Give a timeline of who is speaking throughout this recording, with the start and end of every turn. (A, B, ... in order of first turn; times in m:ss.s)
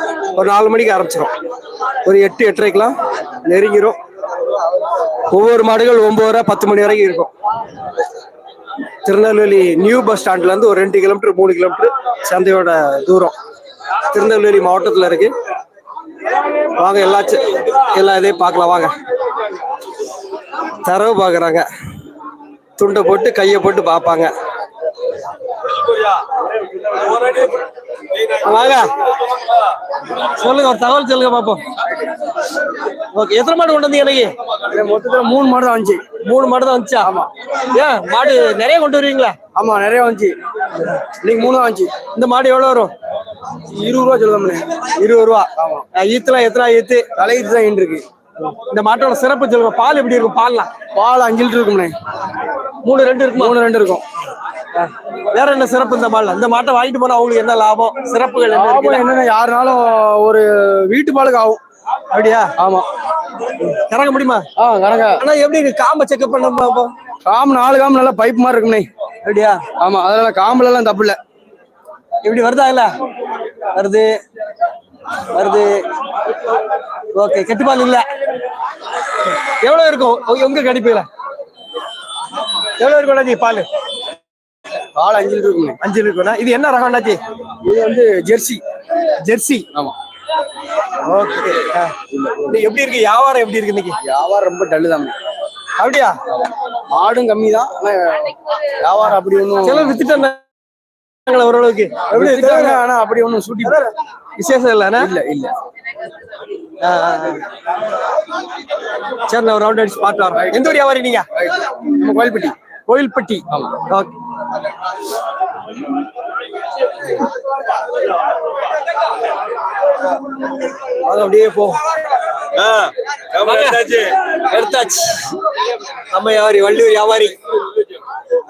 0:00.4-0:01.3 A
0:02.0-0:04.0 A
0:05.3-0:07.3 A
0:09.0-0:13.3 A
0:14.1-0:15.3 A
0:16.8-0:19.0 A
0:20.8-0:21.6 A
0:22.8-0:24.3 A
0:28.4-0:28.9 A
0:30.2-0:31.6 A
0:33.1-0:34.3 A
0:34.7-0:36.0 B
0:36.2-0:37.1 A
0:37.0-0:37.3 B
0:37.7-0:39.4 A
0:39.6-0:40.4 B
0:41.1-0:41.9 B
0:42.2-0:42.9 A
0:43.7-0:44.7 B
0:45.0-0:47.1 A
0:45.6-0:45.8 B
0:47.2-0:48.0 B
0:48.7-0:50.7 A
0:51.0-0:51.9 B
0:52.8-0:53.6 A
0:53.4-0:54.0 B
0:54.8-0:59.1 A
0:58.5-1:01.6 B
1:02.1-1:02.5 A
1:02.6-1:02.9 B
1:03.7-1:04.5 A
1:04.6-1:05.2 B
1:05.2-1:06.9 A
1:07.3-1:08.9 B
1:09.2-1:09.6 A
1:09.8-1:11.2 B
1:12.2-1:12.9 A
1:13.8-1:14.1 A
1:15.4-1:15.7 A
1:17.2-1:18.1 A
1:19.3-1:21.1 A
1:22.8-1:23.7 A
1:25.0-1:25.8 B
1:25.8-1:27.2 A
1:27.6-1:28.6 B
1:29.2-1:29.7 A
1:31.0-1:31.9 A
1:32.1-1:32.6 B
1:32.5-1:34.0 A
1:34.0-1:35.2 B
1:35.8-1:36.2 A
1:37.0-1:40.0 B
1:39.6-1:40.4 A
1:41.3-1:42.8 A
1:42.1-1:43.8 B
1:44.4-1:45.1 A
1:45.0-1:45.5 B
1:46.8-1:47.4 A
1:49.3-1:51.3 A
1:51.9-1:52.5 B
1:52.9-1:54.1 A
2:01.0-2:01.8 A
2:03.4-2:05.3 A
2:06.1-2:07.4 A